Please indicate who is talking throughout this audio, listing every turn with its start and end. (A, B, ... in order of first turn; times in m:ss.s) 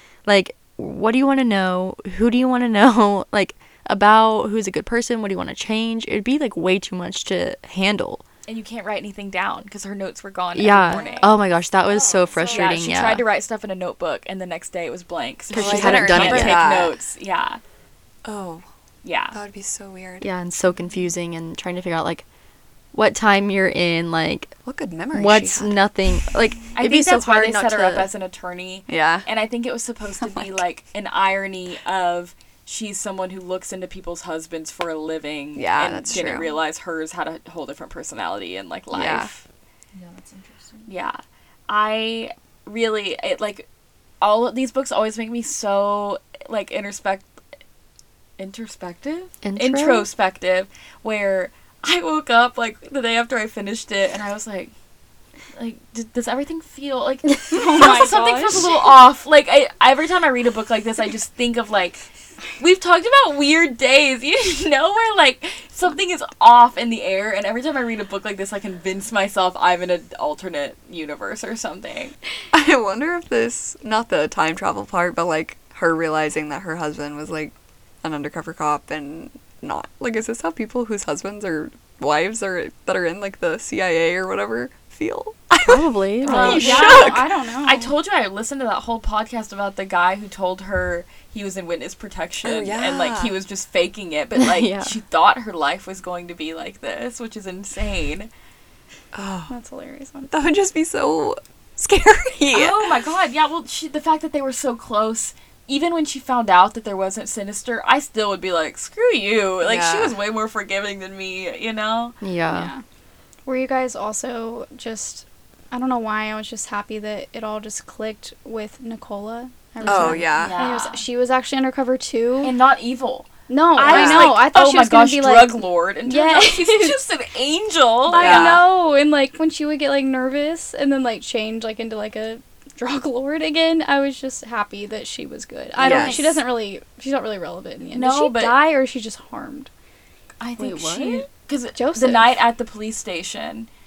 0:00.2-0:08.2 A
0:08.5-0:11.3 B
0:10.5-0:13.2 A
0:12.5-0:17.6 B
0:15.5-0:16.7 A
0:15.5-0:16.9 C
0:18.2-0:18.6 C
0:19.0-0:19.4 B
0:19.3-0:20.3 C
0:20.2-0:22.2 A
0:22.9-0:24.5 A
0:24.6-0:25.7 C
0:25.1-0:28.1 A
0:26.8-0:39.4 B
0:28.9-0:29.3 C
0:30.2-0:30.6 C
0:35.6-0:36.5 C
0:38.9-0:39.3 C
0:40.8-0:43.6 B
0:44.2-0:47.3 B
0:48.4-0:54.7 B
0:49.4-0:50.1 A
0:55.6-1:02.0 B
0:57.5-0:58.7 D
1:02.6-1:12.1 B
1:12.5-1:27.4 C
1:25.6-1:26.9 A
1:26.2-1:27.9 D
1:26.3-1:38.3 B
1:32.4-1:33.3 C
1:34.3-1:34.9 A
1:39.1-1:39.5 C
1:39.5-1:40.3 D
1:40.3-1:43.0 C
1:42.5-1:52.2 B
1:49.6-1:50.2 C
1:52.2-1:52.7 A
1:52.5-1:52.8 D
1:53.4-2:02.5 D
1:59.8-2:00.6 C
1:59.9-2:00.2 A
2:00.0-2:01.0 B
2:02.4-2:08.6 B
2:03.5-2:07.0 D
2:03.8-2:04.3 C
2:08.1-2:19.7 D
2:08.2-2:08.6 C
2:15.8-2:16.4 C
2:17.8-2:18.6 B
2:20.4-2:23.7 B
2:20.6-2:21.2 A
2:21.7-2:22.4 D